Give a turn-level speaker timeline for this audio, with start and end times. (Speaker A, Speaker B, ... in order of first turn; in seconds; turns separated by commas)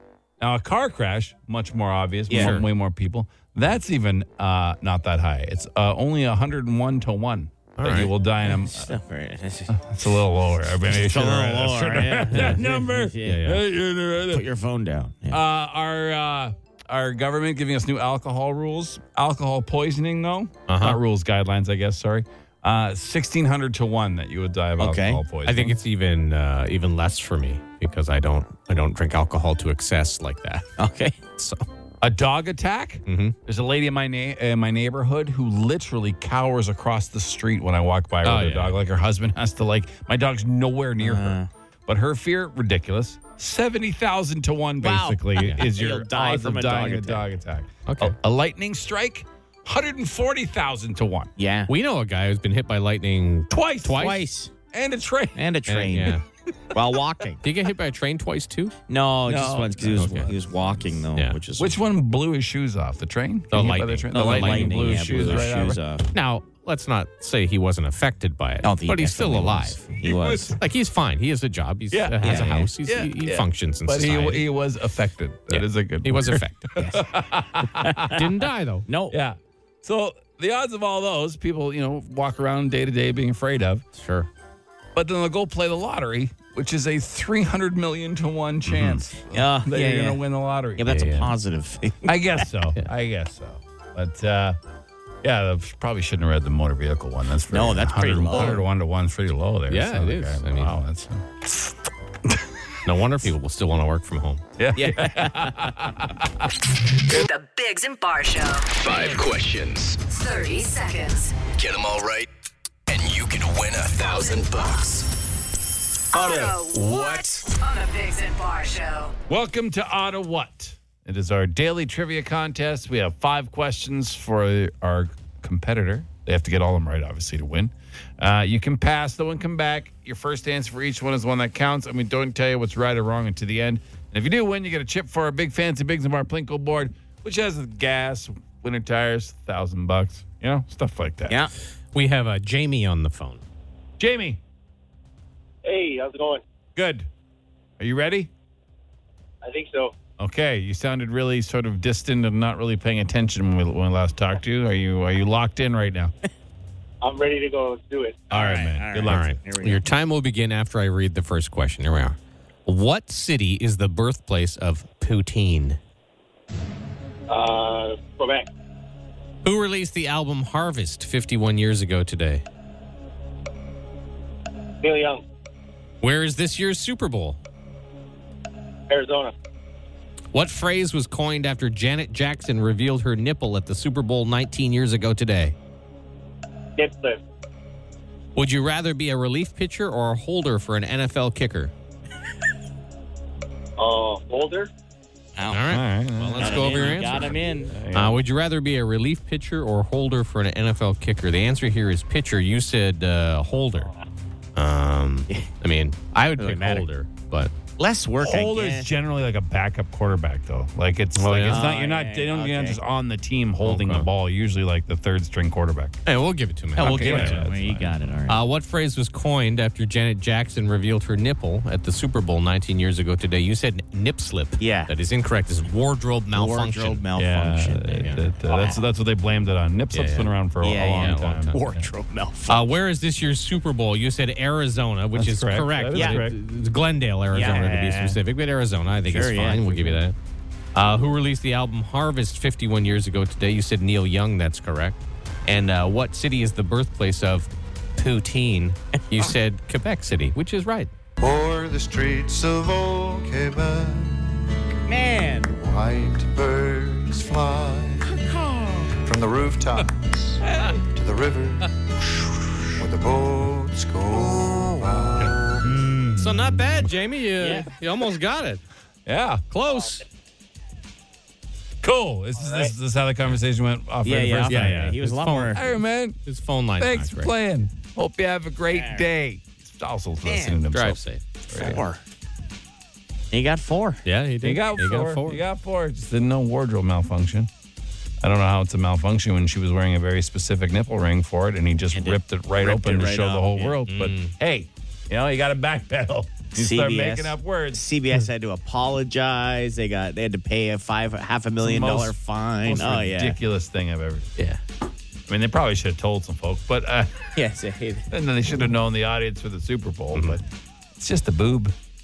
Speaker A: 0.4-8.9, Speaker B: 2.3-2.6, Speaker C: 2.4-2.7, Speaker C: 7.8-8.1, Speaker B: 8.5-9.8, Speaker A: 9.7-14.4, Speaker B: 10.8-13.5, Speaker C: 12.3-12.6, Speaker C: 13.2-13.6, Speaker B: 14.3-15.4, Speaker A: 15.3-25.8, Speaker C: 20.7-21.0, Speaker B: 24.8-25.2, Speaker C: 25.5-30.7, Speaker B: 30.8-31.2, Speaker C: 31.4-31.6, Speaker A: 32.0-51.3, Speaker C: 33.1-33.4, Speaker C: 38.2-38.8, Speaker B: 41.0-41.5, Speaker B: 44.8-47.2, Speaker C: 45.4-45.7, Speaker C: 47.9-48.2, Speaker B: 51.4-51.7, Speaker C: 51.7-54.2, Speaker A: 53.5-54.2, Speaker B: 53.9-54.5, Speaker A: 54.7-55.4, Speaker B: 55.4-56.2, Speaker C: 55.7-56.2, Speaker B: 56.7-57.4, Speaker C: 57.4-58.7, Speaker B: 58.9-61.8, Speaker A: 59.3-60.3, Speaker C: 59.9-60.3, Speaker A: 61.6-65.8, Speaker C: 63.5-65.4, Speaker B: 64.1-66.0, Speaker C: 66.1-69.8, Speaker B: 68.6-70.6, Speaker A: 70.1-70.5, Speaker C: 70.4-74.4, Speaker A: 71.9-78.2, Speaker B: 72.2-72.7, Speaker C: 75.5-76.7, Speaker B: 76.8-77.1, Speaker B: 77.6-78.2, Speaker C: 78.1-78.9, Speaker B: 78.9-79.2, Speaker A: 79.1-83.8, Speaker C: 83.9-84.3, Speaker A: 85.0-90.9, Speaker C: 88.7-89.0, Speaker B: 89.3-90.2, Speaker B: 90.8-92.5, Speaker C: 90.9-91.3, Speaker A: 92.0-94.6, Speaker A: 95.2-101.7, Speaker B: 97.5-98.7, Speaker C: 99.7-100.7, Speaker C: 102.9-104.4, Speaker A: 104.6-106.5, Speaker B: 104.8-105.7, Speaker D: 107.1-109.2, Speaker E: 108.7-110.0, Speaker D: 110.0-111.4, Speaker E: 111.5-112.3, Speaker E: 112.9-115.1, Speaker D: 114.1-114.4, Speaker D: 116.1-119.2, Speaker E: 116.1-117.4, Speaker A: 119.3-141.4, Speaker C: 141.9-143.4, Speaker A: 144.0-144.4, Speaker F: 145.6-146.4, Speaker A: 146.8-147.1, Speaker A: 147.8-148.3, Speaker F: 149.4-149.9, Speaker A: 150.2-156.1, Speaker F: 157.0-158.2, Speaker B: 158.3-159.9, Speaker A: 158.3-159.3, Speaker C: 159.1-165.8, Speaker F: 167.3-168.5, Speaker C: 169.4-172.4, Speaker F: 174.8-175.2, Speaker C: 176.0-177.4, Speaker F: 178.9-179.3, Speaker C: 180.3-185.6, Speaker F: 186.8-187.2, Speaker C: 188.4-191.7, Speaker F: 193.8-194.7, Speaker B: 195.4-195.7, Speaker C: 195.5-197.4, Speaker A: 195.7-198.2, Speaker B: 196.4-197.8, Speaker C: 197.9-203.9, Speaker C: 204.6-207.5, Speaker B: 206.4-206.9, Speaker B: 207.8-208.9, Speaker A: 208.2-216.0, Speaker C: 211.2-211.7, Speaker B: 211.4-212.8, Speaker C: 213.6-214.1, Speaker C: 216.1-217.5, Speaker A: 216.8-217.9, Speaker B: 216.8-218.4, Speaker C: 218.3-227.1, Speaker B: 224.6-224.9, Speaker B: 226.3-228.8, Speaker A: 227.2-231.8, Speaker C: 229.9-230.3, Speaker B: 230.6-232.7, Speaker C: 231.0-231.6, Speaker C: 232.5-240.2, Speaker A: 235.2-236.4, Speaker B: 235.9-236.2, Speaker B: 237.3-238.2, Speaker B: 239.1-240.0, Speaker C: 240.8-250.9, Speaker G: 251.2-254.4, Speaker B: 254.9-255.5, Speaker G: 255.5-258.2, Speaker B: 258.4-258.9, Speaker G: 259.0-265.8, Speaker A: 260.4-260.8, Speaker A: 265.9-266.5, Speaker C: 266.1-268.6, Speaker B: 267.4-267.7, Speaker A: 269.1-269.4, Speaker C: 269.5-270.0, Speaker A: 271.8-275.0, Speaker B: 274.0-275.7, Speaker C: 274.5-275.7, Speaker A: 275.5-276.2, Speaker C: 276.2-277.3, Speaker A: 276.8-281.8, Speaker B: 278.7-279.1, Speaker B: 280.2-280.6, Speaker C: 280.7-281.2, Speaker B: 281.5-282.0, Speaker B: 283.3-284.0, Speaker C: 284.1-285.4, Speaker A: 284.4-287.5, Speaker A: 288.2-297.8, Speaker B: 291.9-293.8, Speaker C: 293.9-294.3, Speaker B: 296.6-303.4, Speaker A: 301.6-304.3, Speaker A: 305.3-307.3, Speaker B: 307.4-308.1, Speaker A: 308.1-310.4, Speaker C: 310.1-310.4, Speaker A: 311.0-311.7